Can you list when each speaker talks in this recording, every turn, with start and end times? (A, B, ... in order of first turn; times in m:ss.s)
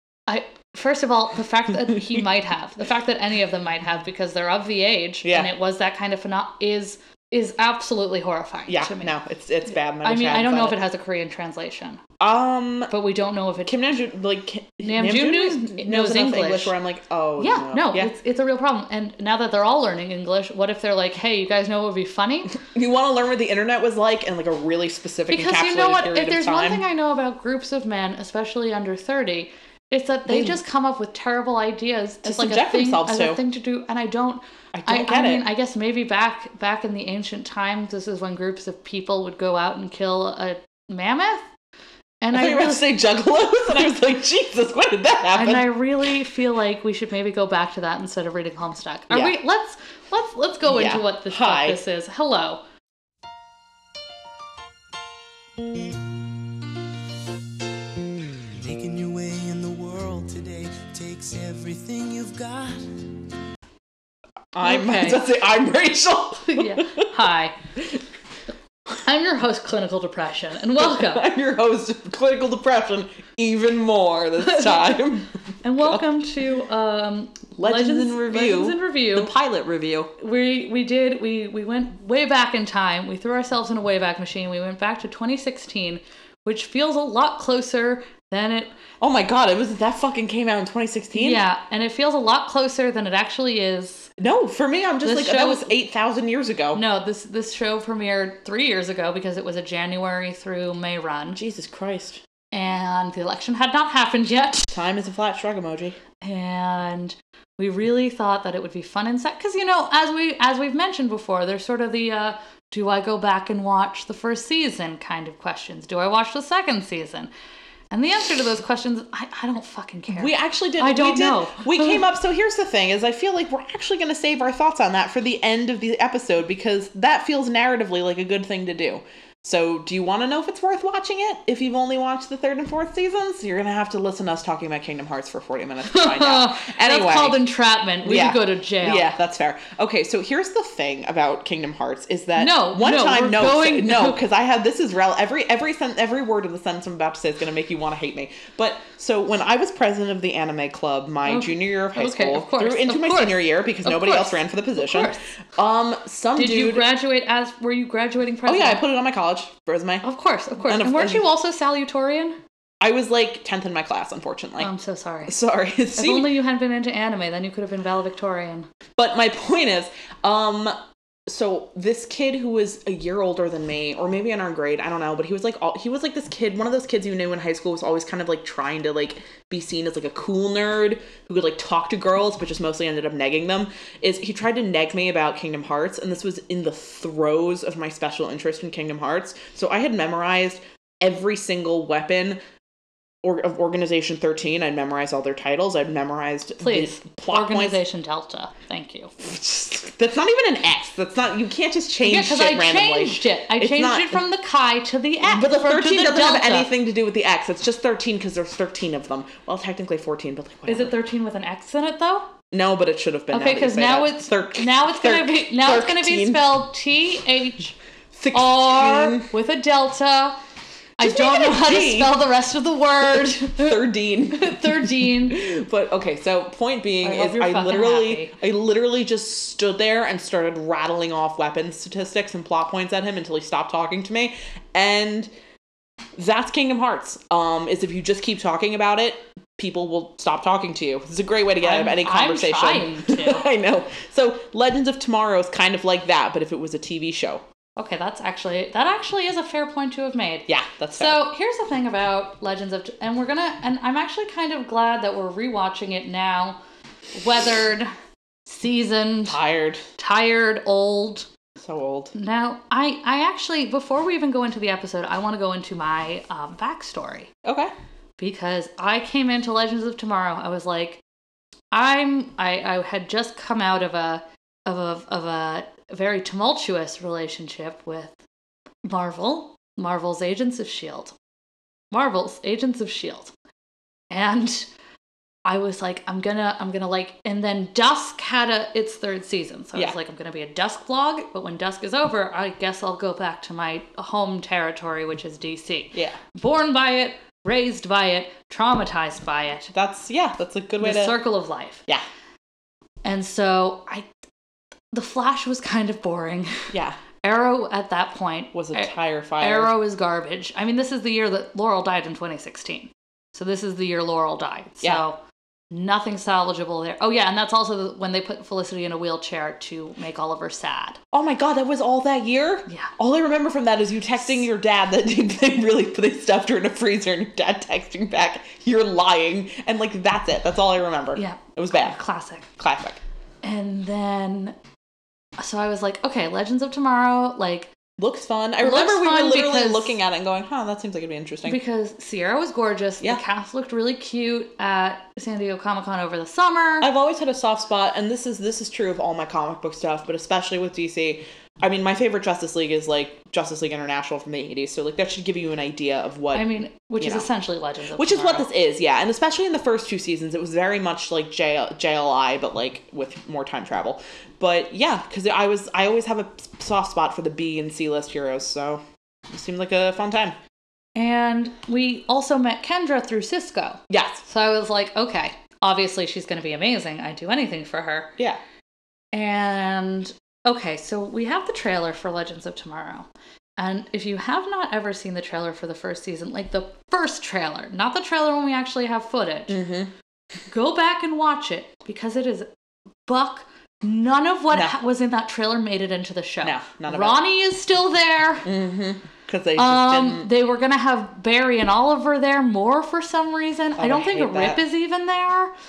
0:00.3-0:09.1 A
0:05.2-0:05.5 B
0:08.7-0:10.8 B
0:10.0-0:12.0 A
0:12.2-0:12.9 B
0:12.9-0:13.8 A
0:13.7-0:18.1 B
0:14.8-0:16.7 A
0:17.4-0:22.6 A
0:22.6-0:26.8 B
0:25.3-0:41.5 A
0:30.3-0:30.6 B
0:32.2-0:33.4 B
0:34.7-0:35.5 B
0:42.2-0:43.0 A
0:42.3-0:45.7 B
0:45.4-0:52.6 A
0:49.1-0:49.4 B
0:50.7-0:51.8 B
0:58.4-1:03.2 C
1:04.6-1:07.1 B
1:04.6-1:05.2 A
1:06.5-1:07.6 A
1:09.0-1:11.2 A
1:10.8-1:16.0 B
1:14.4-1:15.0 A
1:15.6-1:19.3 A
1:17.6-1:20.1 B
1:20.2-1:28.7 A
1:29.0-1:31.4 B
1:31.1-1:34.1 A
1:34.2-1:36.8 B
1:35.0-1:35.7 A
1:36.7-1:41.4 A
1:41.3-1:42.2 B
1:42.5-1:44.8 A
1:44.7-1:46.0 B
1:46.2-1:57.3 A
1:57.9-2:02.1 A
2:00.1-2:17.4 B
2:15.9-2:19.2 A
2:18.0-2:36.9 B
2:22.4-2:24.2 A
2:31.2-2:35.2 A
2:36.4-2:38.8 A
2:38.5-2:40.0 B
2:40.0-2:42.4 A
2:40.7-2:41.3 B
2:42.8-2:44.7 B
2:44.6-2:45.4 A
2:45.3-2:46.3 B
2:46.0-2:48.7 A
2:49.0-2:50.8 B
2:51.3-3:12.4 B
3:13.2-3:17.8 B
3:16.6-3:19.1 A
3:19.2-3:24.2 B
3:22.0-3:26.7 A
3:25.2-3:31.0 B
3:30.7-3:32.3 A
3:32.5-3:36.6 B
3:33.3-3:37.8 A
3:38.1-3:39.3 B
3:38.3-3:40.4 A
3:41.0-3:45.4 A
3:41.0-3:42.2 B
3:43.6-3:55.3 B
3:47.0-3:48.3 A
3:56.2-4:07.4 B
4:01.6-4:03.4 A
4:07.8-4:16.6 A
4:10.5-4:11.2 B
4:17.2-4:17.9 A
4:18.5-4:19.4 A
4:19.3-4:19.8 B
4:20.0-4:21.3 A
4:21.6-4:22.1 B
4:22.1-4:27.3 A
4:27.4-4:27.7 B
4:28.2-4:31.0 A
4:31.7-4:38.2 A
4:38.8-4:41.2 A
4:41.9-4:43.3 A
4:44.1-4:44.7 A
4:45.4-4:59.7 A
4:59.7-5:01.2 B
5:00.8-5:01.8 A
5:03.0-5:04.1 A
5:04.9-5:15.2 A
5:06.7-5:07.0 B
5:08.5-5:09.8 B
5:15.7-5:21.0 A
5:21.1-5:32.0 B
5:31.2-5:32.5 A
5:32.6-5:33.0 B
5:33.4-5:34.6 A
5:35.4-5:37.7 A
5:38.0-5:41.6 B
5:38.6-5:40.0 A
5:41.4-5:46.9 A
5:46.8-5:56.5 B
5:56.3-5:58.5 A
5:57.0-5:57.3 B
5:58.0-6:10.4 B
6:11.0-6:18.2 A
6:13.9-6:14.2 B
6:19.1-6:29.6 A
6:29.5-6:29.9 B
6:30.5-6:32.5 A
6:33.1-6:38.5 A
6:36.4-6:37.2 B
6:38.4-6:40.3 B
6:39.6-6:45.5 A
6:43.8-6:44.6 B